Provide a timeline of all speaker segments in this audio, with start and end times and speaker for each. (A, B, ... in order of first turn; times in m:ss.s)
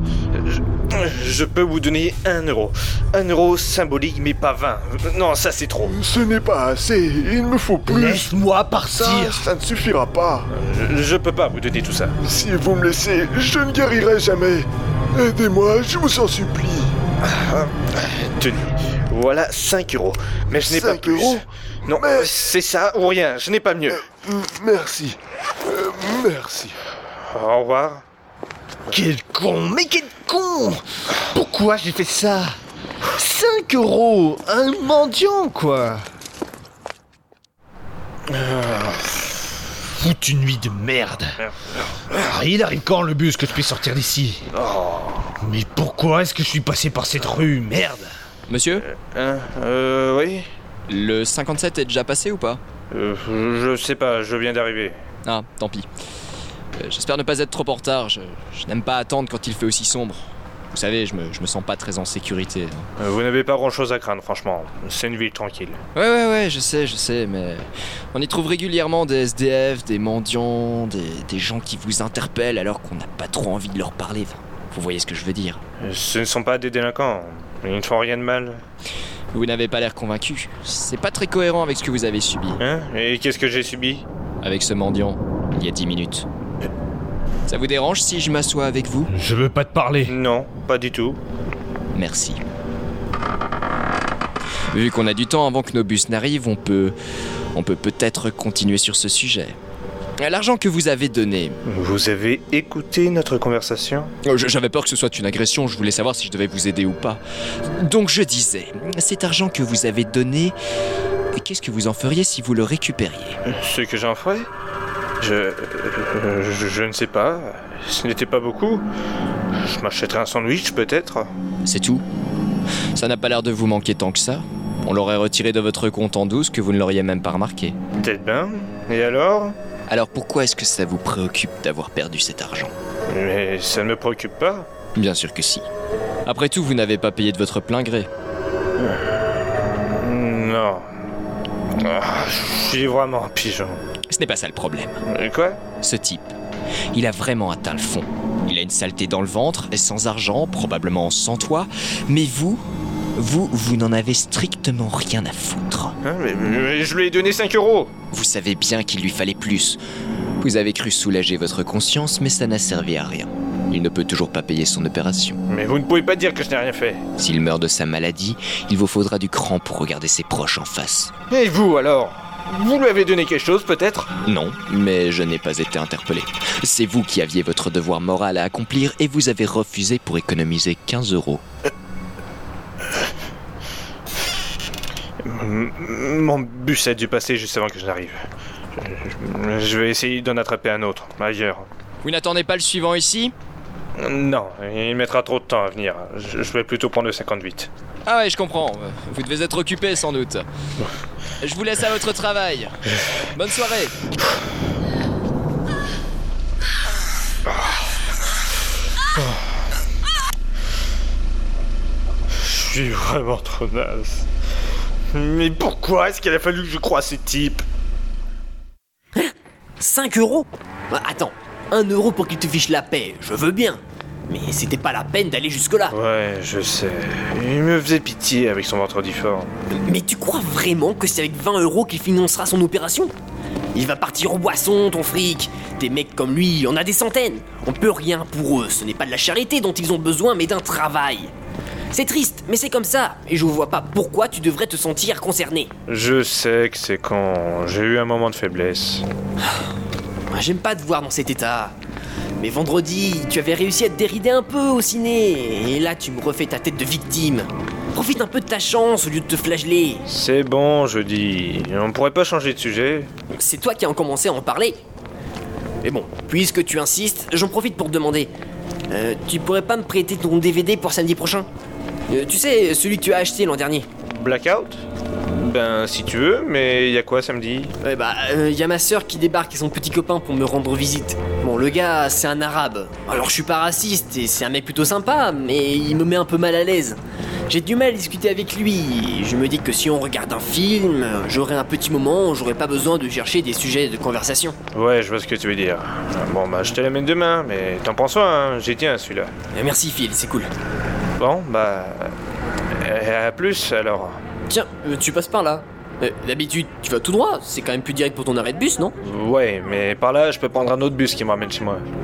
0:00.9-0:05.9 A
0:05.9-0:08.3 B
0:07.9-0:09.4 C
0:08.9-0:10.5 B
0:10.5-0:12.2 A
0:12.2-0:16.9 B
0:17.2-0:24.0 A
0:20.6-0:22.3 B
0:24.0-0:26.8 B
0:27.3-0:28.0 A
0:28.9-0:32.6 C
0:33.2-0:36.0 C
0:38.3-0:39.0 A
0:40.0-0:41.3 C
0:42.1-0:44.4 C
0:44.5-0:45.3 A
0:45.4-0:48.1 C
0:48.5-0:48.8 D
0:48.7-0:50.5 A
0:50.9-0:52.6 D
0:52.9-0:55.0 A
0:55.2-0:55.9 D
0:56.8-1:02.9 D
1:03.0-1:05.8 A
1:06.0-1:15.6 D
1:15.8-1:18.6 A
1:19.3-1:22.6 D
1:22.6-1:24.1 A
1:24.4-1:26.3 D
1:27.5-1:29.1 D
1:29.1-1:30.1 C
1:30.1-1:31.2 A
1:31.9-1:32.4 D
1:34.7-1:37.0 D
1:37.6-1:39.6 D
1:40.2-1:41.6 D
1:41.7-1:44.1 A
1:44.2-1:47.2 D
1:47.7-1:50.6 D
1:51.4-1:53.4 D
1:53.4-1:54.5 A
1:55.2-1:58.8 A
1:59.6-2:01.3 A
2:01.6-2:02.0 D
2:03.0-2:07.8 D
2:08.0-2:09.6 A
2:09.9-2:12.7 D
2:13.1-2:14.7 A
2:15.0-2:15.6 D
2:16.3-2:18.1 D
2:18.8-2:19.2 A
2:20.0-2:20.9 A
2:21.8-2:23.8 A
2:24.1-2:25.0 D
2:25.1-2:25.6 A
2:25.8-2:26.3 D
2:26.9-2:32.6 D
2:33.2-2:36.0 D
2:36.0-2:37.9 A
2:38.1-2:39.8 D
2:40.4-2:45.4 D
2:45.5-2:47.0 A
2:47.2-2:51.1 D
2:51.3-2:54.1 A
2:54.2-3:01.4 D
3:05.2-3:08.2 A
3:08.8-3:11.7 A
3:12.0-3:13.3 D
3:14.0-3:17.7 A
3:18.1-3:20.4 D
3:21.4-3:22.8 D
3:23.4-3:23.9 D
3:32.4-3:34.2 A
3:35.1-3:37.4 A
3:35.6-3:37.6 C
3:39.2-3:46.0 E
3:45.9-3:49.5 A
3:49.8-3:53.1 E
3:53.7-4:01.3 E
4:01.9-4:05.7 E
4:05.9-4:09.1 A
4:10.3-4:11.8 E
4:12.4-4:20.0 E
4:20.1-4:23.1 A
4:23.3-4:24.8 E
4:25.8-4:28.3 E
4:28.9-4:31.5 E
4:32.1-4:33.9 E
4:34.1-4:37.7 A
4:37.8-4:54.6 E
4:54.7-4:59.3 A
4:59.5-5:00.5 E
5:01.2-5:02.1 A
5:02.8-5:04.2 A
5:04.5-5:09.0 E
5:09.0-5:11.8 A